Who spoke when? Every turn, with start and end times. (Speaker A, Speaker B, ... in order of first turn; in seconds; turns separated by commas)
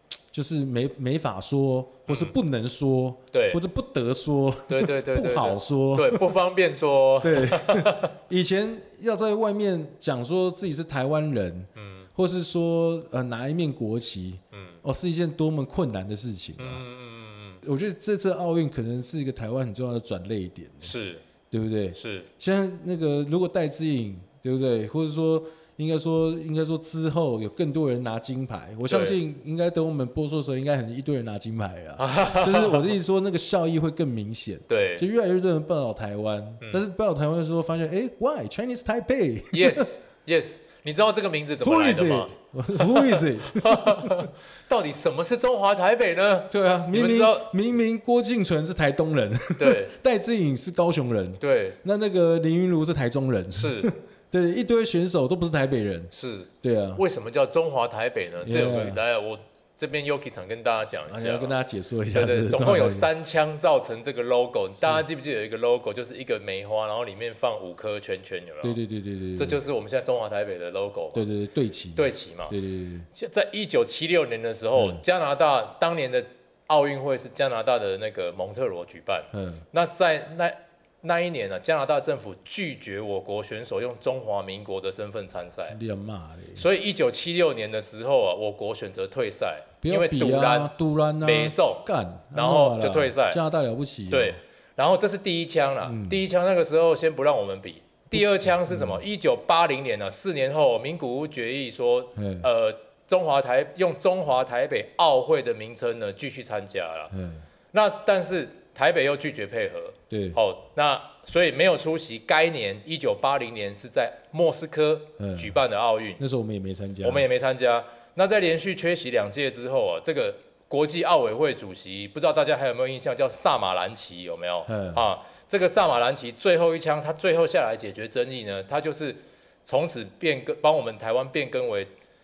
Speaker A: 0.3-6.3, Speaker B: 2.1-2.3, Speaker B: 3.3-3.6, Speaker B: 4.7-8.1, Speaker A: 7.2-16.8, Speaker B: 11.8-12.1, Speaker B: 14.5-14.8, Speaker B: 16.6-17.6, Speaker A: 17.6-20.9, Speaker B: 20.8-21.2, Speaker A: 21.5-39.9, Speaker B: 21.9-22.3, Speaker B: 28.9-29.2, Speaker B: 32.0-32.9, Speaker B: 34.7-35.0, Speaker B: 39.5-47.5, Speaker A: 41.6-44.3, Speaker A: 46.5-57.0, Speaker B: 49.6-49.9, Speaker B: 51.4-51.8, Speaker B: 53.5-53.9, Speaker B: 56.1-61.6, Speaker A: 58.4-59.0, Speaker A: 61.0-63.1, Speaker B: 62.1-68.8, Speaker A: 64.8-65.0, Speaker A: 68.6-69.6, Speaker B: 69.3-71.2, Speaker A: 71.1-73.1, Speaker B: 71.9-72.5, Speaker B: 73.1-85.8, Speaker A: 74.7-75.0, Speaker A: 79.3-79.6, Speaker A: 85.7-86.7, Speaker B: 86.5-93.4, Speaker A: 89.8-94.4, Speaker B: 94.1-107.1, Speaker A: 95.8-96.2, Speaker A: 98.1-99.0, Speaker A: 102.2-102.5, Speaker A: 107.1-107.4, Speaker B: 107.7-116.2, Speaker A: 110.1-110.4, Speaker A: 115.2-115.6, Speaker A: 116.2-117.2, Speaker B: 117.0-131.9, Speaker A: 124.7-125.0